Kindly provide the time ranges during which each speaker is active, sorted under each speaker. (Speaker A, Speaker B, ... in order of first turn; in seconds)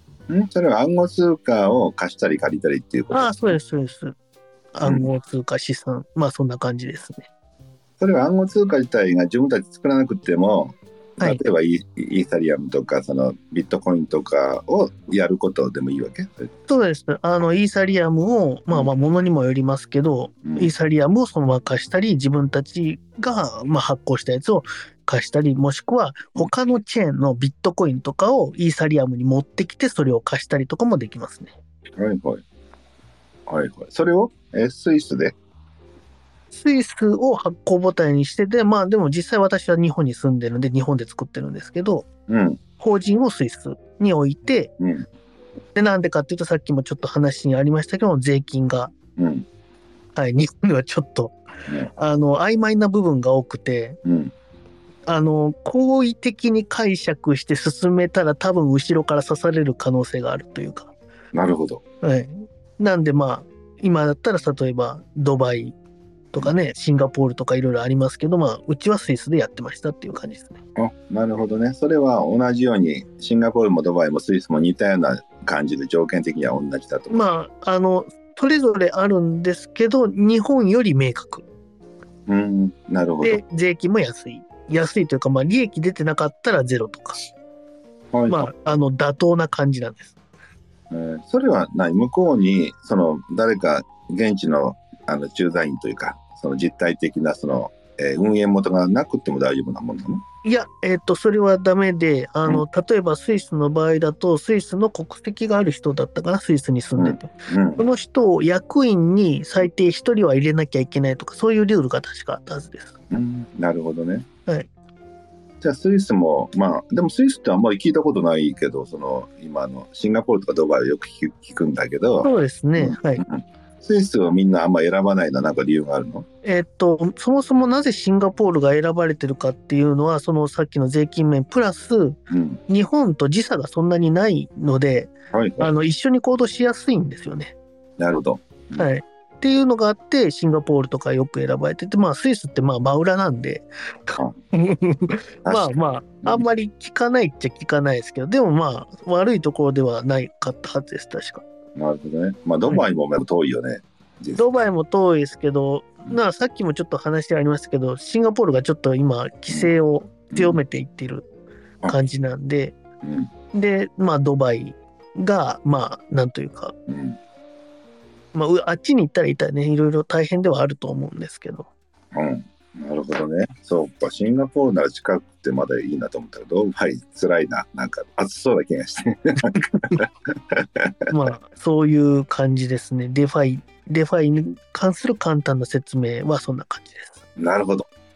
Speaker A: 0.3-3.5, 4.8-5.1, 8.0-16.5, 20.4-20.7, 32.0-32.4, 33.5-35.4, 42.3-42.6, 44.8-45.0, 49.2-49.5, 54.0-54.3, 61.3-61.8, 70.8-77.2, 82.3-83.4, 88.1-88.5, 90.9-100.2, 107.0-107.8, 113.1-114.2, 115.6-126.2, 132.3-132.6, 135.3-135.7, 138.0-138.9, 145.4-146.4, 151.8-154.6, 160.3-160.6, 163.0-163.3, 166.9-167.2, 172.1-180.0, 180.8-181.1, 187.4-187.9
Speaker B: 3.1-4.2, 4.7-7.3, 16.7-31.5, 36.5-42.1, 42.8-44.7, 45.7-48.9, 50.1-51.4, 51.9-54.0, 55.0-60.9, 62.0-65.8, 66.3-70.6, 77.1-81.4, 83.2-87.2, 88.3-90.1, 100.4-112.9, 122.2-123.2, 126.4-137.5, 138.8-151.4, 154.3-161.2, 161.9-162.7, 163.5-166.7, 168.3-171.7, 181.1-187.2